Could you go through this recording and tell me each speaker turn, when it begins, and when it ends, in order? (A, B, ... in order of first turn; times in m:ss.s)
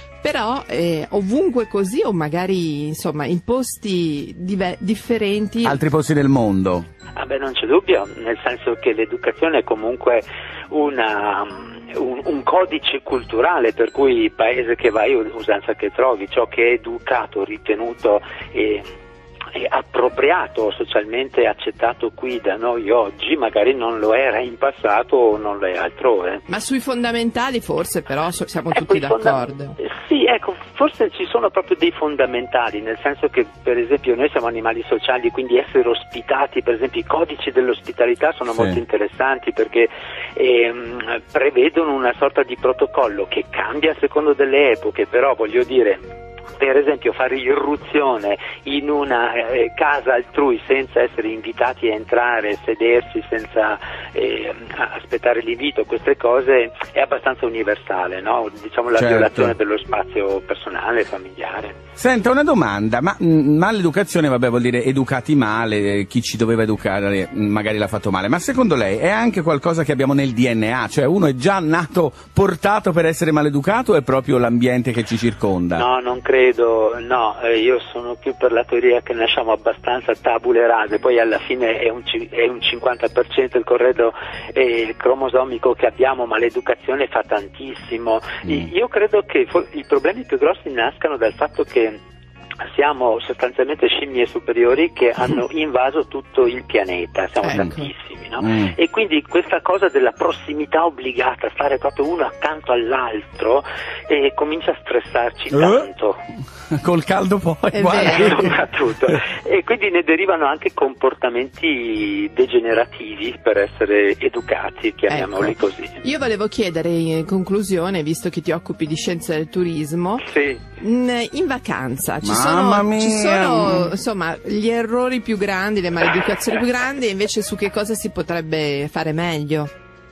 0:00.2-0:05.8 A
0:05.6-0:06.9 B
0:07.2-0:18.8 C
0:19.5-0:26.4 C
0:26.5-0:29.8 A
0:28.7-0:46.0 C
0:46.6-1:01.8 C
0:58.9-0:59.5 B
1:02.0-1:15.8 B
1:15.7-1:32.0 C
1:32.6-1:46.2 C
1:37.4-1:37.9 A
1:38.4-1:38.7 B
1:45.5-1:45.9 B
1:46.7-1:48.6 B
1:47.7-1:48.6 A
1:47.9-1:56.0 C
1:55.1-2:00.2 A
2:00.2-2:00.6 C
2:00.8-2:09.7 A
2:02.2-2:03.9 B